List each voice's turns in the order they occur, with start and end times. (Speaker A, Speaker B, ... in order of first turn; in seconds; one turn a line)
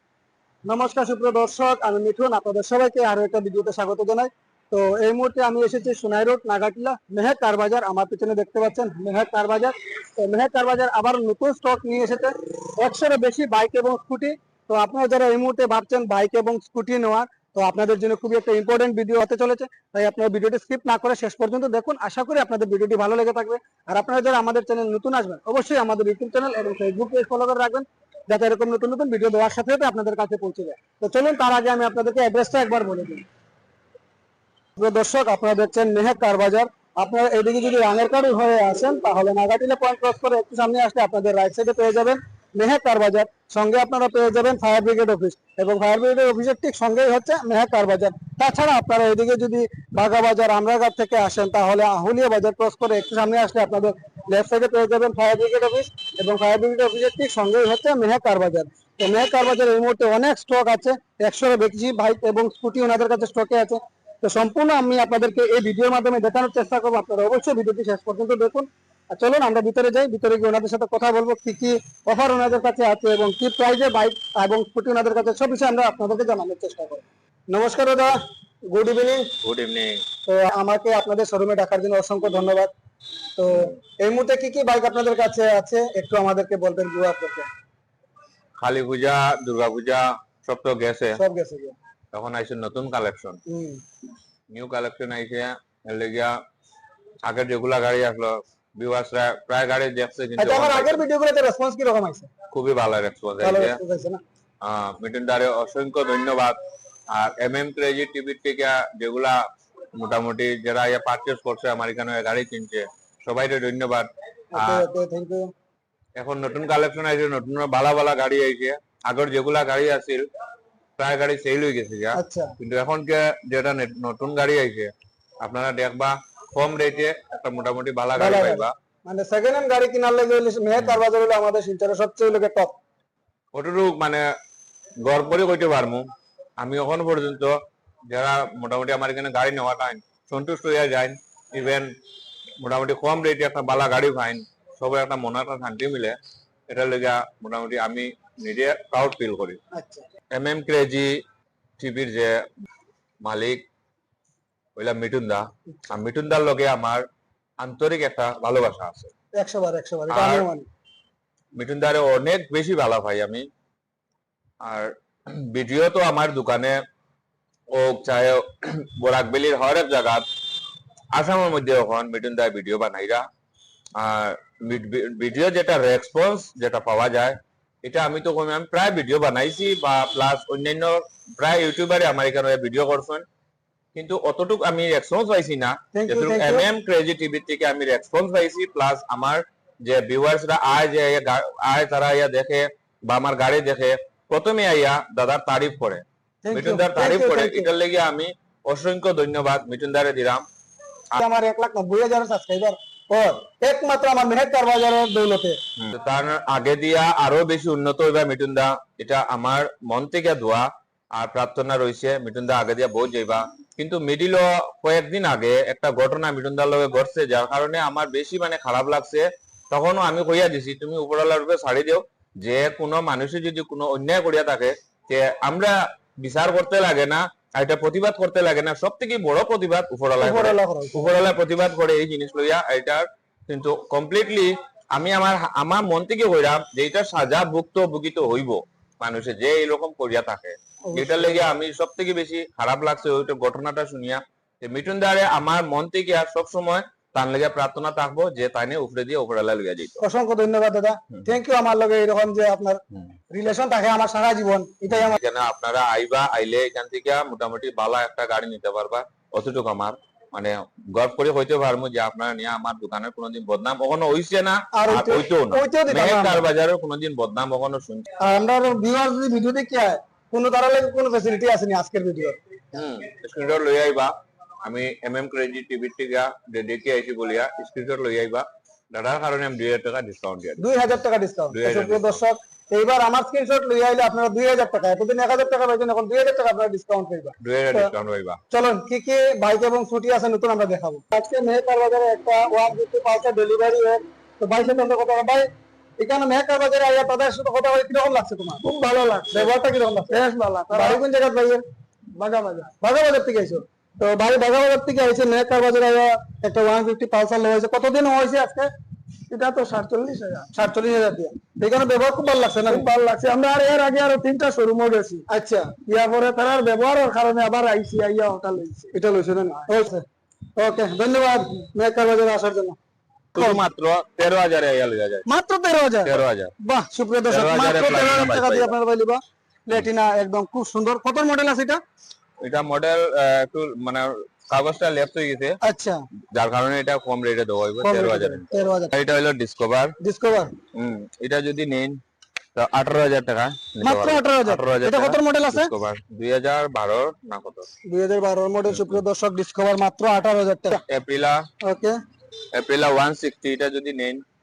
Speaker A: 0.6-33.2
Speaker A: 34.8-78.2
Speaker A: 78.7-79.3
Speaker B: 79.4-80.0
Speaker A: 80.3-82.7
Speaker A: 83.4-87.5
Speaker B: 88.6-91.2
Speaker A: 91.2-91.8
Speaker B: 92.1-93.4
Speaker A: 93.5-93.8
Speaker B: 94.5-96.3
Speaker B: 97.2-101.0
Speaker A: 100.4-102.3
Speaker B: 102.5-103.8
Speaker A: 103.4-104.2
Speaker B: 104.6-106.6
Speaker B: 107.1-109.4
Speaker B: 109.9-114.9
Speaker A: 114.5-115.5
Speaker B: 116.2-120.3
Speaker B: 121.0-124.9
Speaker A: 122.1-122.5
Speaker B: 125.4-128.7
Speaker A: 128.2-132.8
Speaker B: 130.8-131.0
Speaker B: 133.5-134.2
Speaker B: 135.0-136.1
Speaker B: 136.6-137.5
Speaker B: 138.1-141.9
Speaker B: 142.6-146.2
Speaker B: 146.7-149.6
Speaker A: 149.7-150.1
Speaker B: 150.3-151.1
Speaker B: 151.8-152.4
Speaker B: 153.2-153.6
Speaker B: 154.8-157.0
Speaker B: 157.6-159.1
Speaker A: 159.4-160.7
Speaker B: 160.1-160.5
Speaker B: 161.6-163.5
Speaker B: 164.6-166.8
Speaker B: 167.7-170.2
Speaker B: 171.1-173.2
Speaker B: 174.0-183.2
Speaker B: 183.9-200.4
Speaker A: 185.9-186.7
Speaker A: 196.4-197.7
Speaker A: 201.1-205.6
Speaker B: 205.8-250.0
Speaker A: 230.2-231.1
Speaker A: 240.9-241.4
Speaker A: 250.0-252.8
Speaker A: 253.3-255.2
Speaker B: 254.9-268.1
Speaker A: 264.7-266.4
Speaker A: 268.2-272.4
Speaker B: 272.7-274.1
Speaker B: 274.6-280.6
Speaker A: 280.6-287.9
Speaker B: 281.5-282.2
Speaker B: 287.4-288.4
Speaker A: 288.5-298.6
Speaker C: 298.6-299.5
Speaker A: 299.3-301.6
Speaker C: 300.1-301.0
Speaker C: 302.1-302.8
Speaker A: 302.8-308.7
Speaker C: 309.3-310.5
Speaker A: 310.5-312.9
Speaker C: 312.7-315.2
Speaker A: 315.3-315.8
Speaker C: 315.8-318.9
Speaker A: 318.9-320.0
Speaker A: 320.6-322.8
Speaker B: 323.3-325.2
Speaker A: 323.4-323.6
Speaker A: 325.3-331.8
Speaker B: 326.0-326.5
Speaker B: 327.3-328.7
Speaker B: 332.4-335.6
Speaker A: 335.6-336.0
Speaker B: 336.3-339.9
Speaker A: 337.8-338.9
Speaker A: 340.0-340.5
Speaker B: 340.7-342.0
Speaker B: 342.6-347.7
Speaker A: 343.8-345.7
Speaker A: 347.9-350.8
Speaker B: 348.6-349.0
Speaker B: 350.9-351.4
Speaker A: 351.6-352.0
Speaker B: 352.5-354.2